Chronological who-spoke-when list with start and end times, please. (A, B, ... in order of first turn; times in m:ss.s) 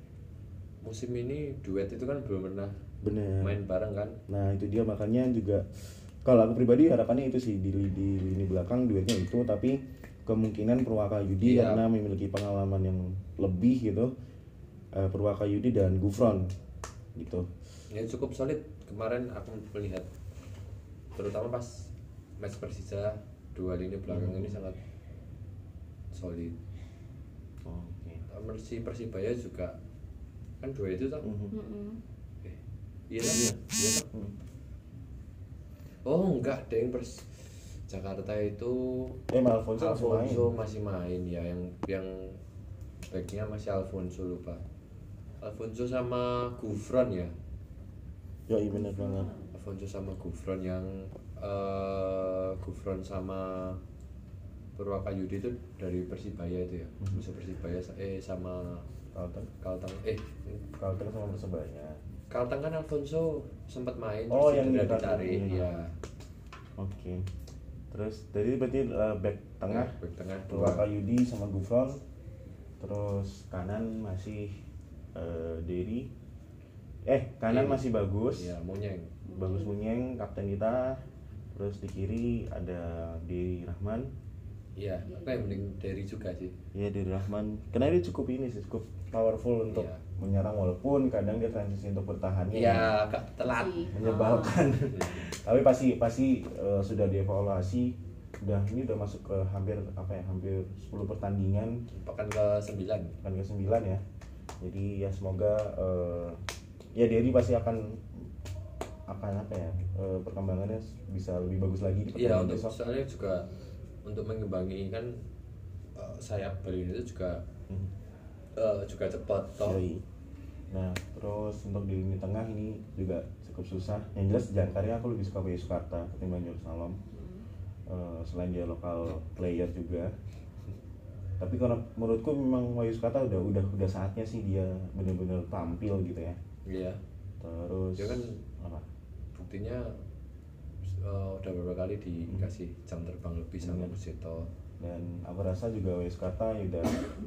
0:00.8-0:02.7 A
0:03.0-0:03.6 B
0:03.4-0:04.2 A
0:04.3-0:14.1 B
0:11.4-0:11.8 A
0:14.9-0:16.5 B
0:17.2-0:17.5 B
0:17.9-0:20.1 A
0:21.1-0:24.8 A
0:24.1-0:24.6 B
0:26.1-0:26.6 A
0:27.6-0:28.2 B
0:28.3-0:29.8 A
0:30.6-0:31.3 A
0:31.2-0:31.5 B
0:31.5-0:32.0 C
0:33.1-0:34.1 A
0:33.3-0:33.6 B
0:36.0-0:39.2 A
0:39.3-0:40.5 B
0:39.8-0:42.4 A
0:43.1-0:44.6 A
0:45.4-0:47.3 A
0:48.5-0:49.3 B
0:48.7-0:49.5 C
0:49.5-0:53.8 A
0:54.8-0:58.8 A
0:59.1-0:59.5 B
0:59.6-1:00.6 A
1:00.8-1:02.0 B
1:02.3-1:05.9 A
1:04.3-1:05.7 B
1:05.5-1:05.8 C
1:06.8-1:07.3 B
1:07.9-1:09.9 B
1:09.7-1:10.9 A
1:10.5-1:12.0 B
1:12.8-1:14.6 B
1:15.1-1:16.1 B
1:17.0-1:18.5 B
1:17.5-1:17.8 A
1:18.4-1:19.2 A
1:19.2-1:19.7 C
1:19.3-1:24.1 B
1:24.8-1:26.5 A
1:25.0-1:25.6 C
1:26.7-1:32.9 B
1:29.7-1:30.0 A
1:32.5-1:33.9 A
1:33.4-1:34.6 C
1:33.9-1:41.8 B
1:34.9-1:35.3 A
1:41.9-1:43.2 A
1:43.2-1:44.0 B
1:44.6-1:46.4 B
1:46.9-1:48.2 B
1:49.1-1:52.7 B
1:52.1-1:53.5 A
1:54.0-1:55.2 A
1:56.0-1:57.4 A
1:58.6-1:59.8 A
1:59.6-2:00.0 B
2:00.7-2:07.0 B
2:07.1-2:07.4 C
2:07.9-2:10.1 B
2:11.4-2:16.4 B
2:16.6-2:17.0 A
2:17.4-2:18.8 B
2:18.0-2:18.4 A
2:19.3-2:20.0 A
2:20.8-2:24.5 A
2:23.6-2:24.0 B
2:24.8-2:27.0 B